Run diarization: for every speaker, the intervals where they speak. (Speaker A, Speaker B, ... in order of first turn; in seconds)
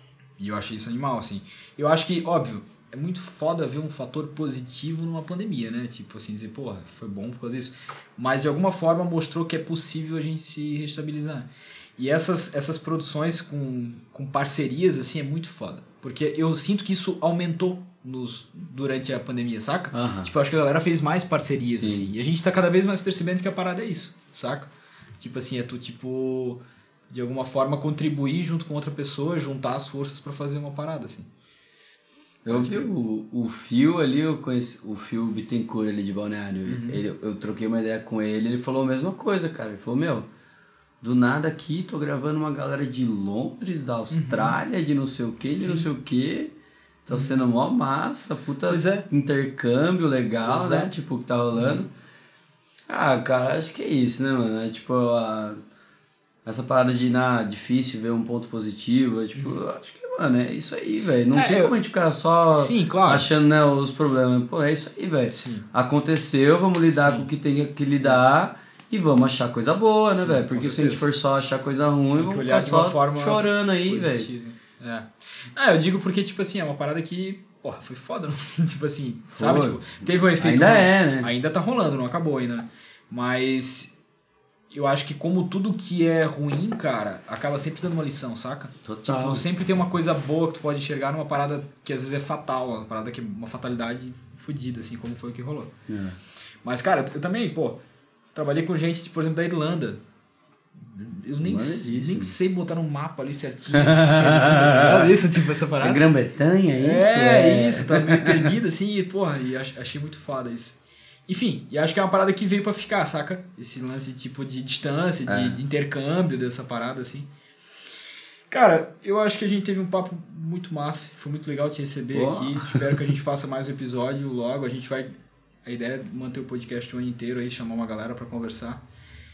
Speaker A: 0.4-31.3, 32.5-32.9, 36.6-37.0, 44.1-44.6, 45.5-45.9, 47.1-47.5, 48.7-49.0, 50.4-50.9, 51.5-51.9, 59.3-59.6, 61.3-61.7, 62.5-63.3, 65.3-65.7, 66.9-67.3, 68.0-68.3, 70.1-71.1, 72.2-83.9, 84.7-95.7, 96.6-97.8, 98.3-100.0, 100.8-106.0, 106.8-117.3, 118.5-125.1, 125.6-128.8
Speaker B: 19.9-20.3, 21.7-22.1, 32.4-40.3, 41.0-46.5, 47.0-51.9, 52.9-55.6, 56.4-74.3, 79.3-81.3, 88.8-89.4, 95.9-96.2, 101.4-102.3, 103.7-105.2, 105.8-108.5, 115.2-115.6, 122.1-123.0